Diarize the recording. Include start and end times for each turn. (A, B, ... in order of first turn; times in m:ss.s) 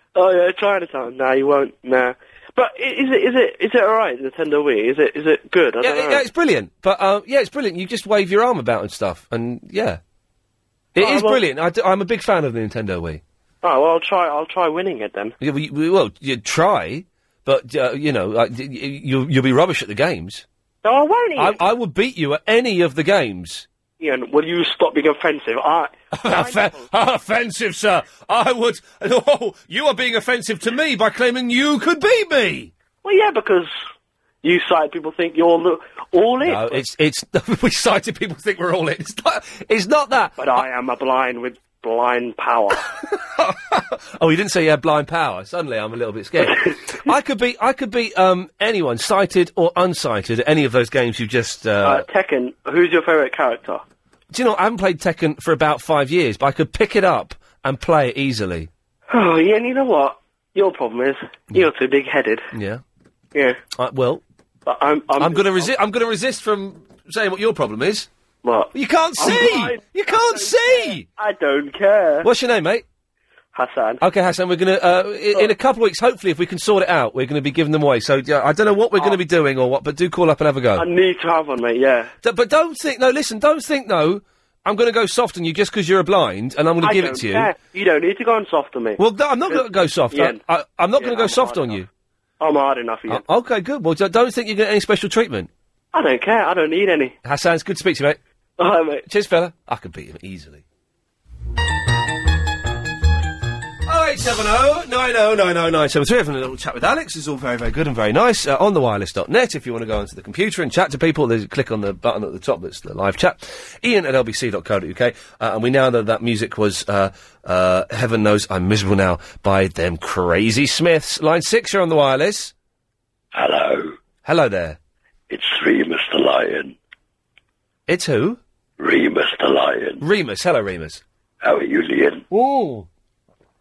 0:00.1-0:06.2 A
0:05.8-0:10.0 B
0:10.9-0:13.2 B
0:11.0-0:11.4 A
0:13.6-0:15.3 A
0:15.4-0:20.4 B
0:20.8-0:21.6 A
0:21.4-0:23.7 B
0:24.0-0:26.9 A
0:26.1-0:32.7 B
0:33.0-0:33.7 A
0:34.4-0:36.8 A
0:36.4-0:40.6 B
0:40.4-0:42.8 A
0:43.3-0:52.0 B
0:51.8-0:53.8 A
0:54.3-0:58.7 B
0:59.1-1:02.5 A
1:02.5-1:02.8 B
1:03.3-1:03.6 A
1:03.8-1:04.2 B
1:04.6-1:05.7 A
1:05.2-1:08.1 B
1:08.4-1:12.3 A
1:08.7-1:11.0 B
1:12.2-1:12.8 B
1:13.5-1:14.0 A
1:14.0-1:20.9 B
1:18.9-1:19.2 A
1:20.8-1:22.1 A
1:22.2-1:27.5 B
1:26.8-1:30.4 A
1:29.0-1:31.9 B
1:31.0-1:31.8 A
1:32.4-1:33.2 A
1:33.1-1:35.5 B
1:35.9-1:37.2 A
1:37.2-1:38.2 B
1:38.6-1:39.0 A
1:39.0-1:40.6 B
1:43.8-2:02.5 B
2:03.3-2:03.9 C
2:04.2-2:04.8 B
2:05.3-2:06.7 C
2:07.9-2:08.4 B
2:08.8-2:10.0 C
2:10.0-2:11.0 B
2:11.4-2:12.2 C
2:12.3-2:12.8 B